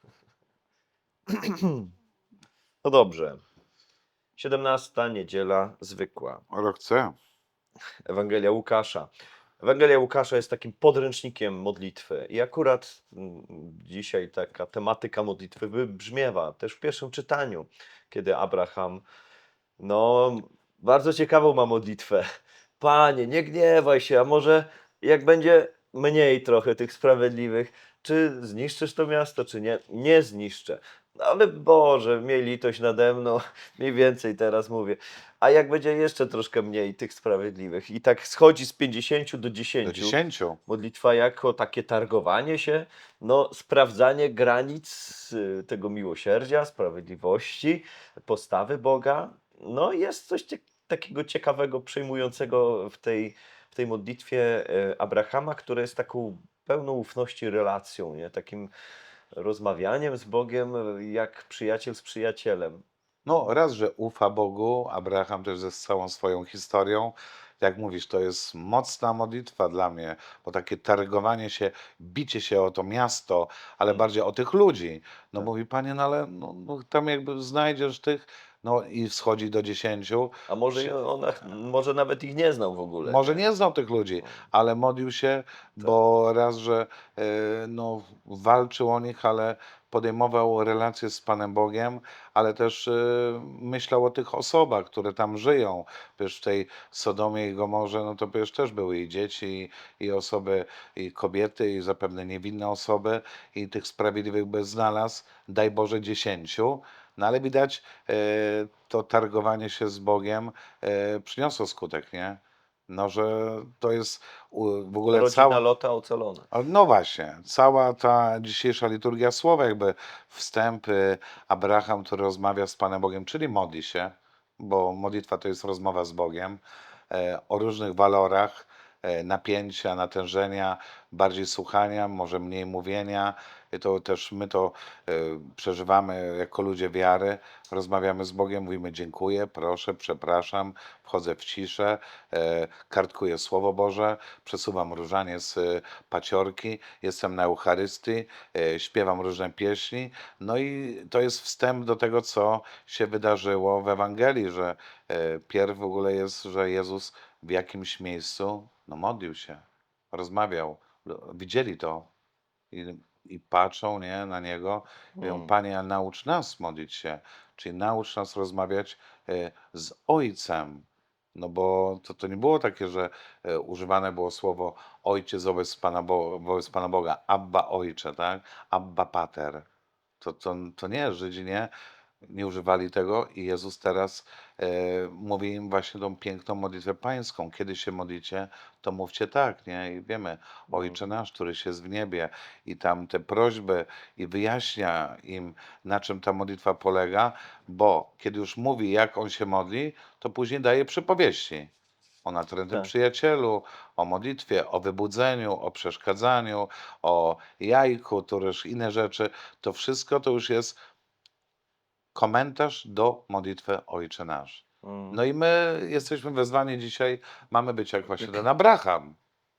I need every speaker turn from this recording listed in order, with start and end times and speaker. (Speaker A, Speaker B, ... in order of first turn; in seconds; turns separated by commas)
Speaker A: 1.3-1.9, Speaker A: 2.8-3.4, Speaker A: 4.4-6.4, Speaker B: 6.5-7.1, Speaker A: 8.1-9.1, Speaker A: 9.6-19.0, Speaker A: 19.8-22.2, Speaker A: 22.8-58.7, Speaker B: 39.8-40.6, Speaker A: 59.3-62.8, Speaker B: 63.2-80.9, Speaker A: 80.5-83.4, Speaker B: 83.0-115.6, Speaker A: 115.1-116.5, Speaker B: 116.5-162.1, Speaker B: 162.7-179.6, Speaker A: 165.2-165.5, Speaker B: 180.2-181.7, Speaker B: 182.2-201.7, Speaker A: 190.7-191.0, Speaker B: 202.2-210.8, Speaker B: 212.1-219.2, Speaker A: 214.8-215.2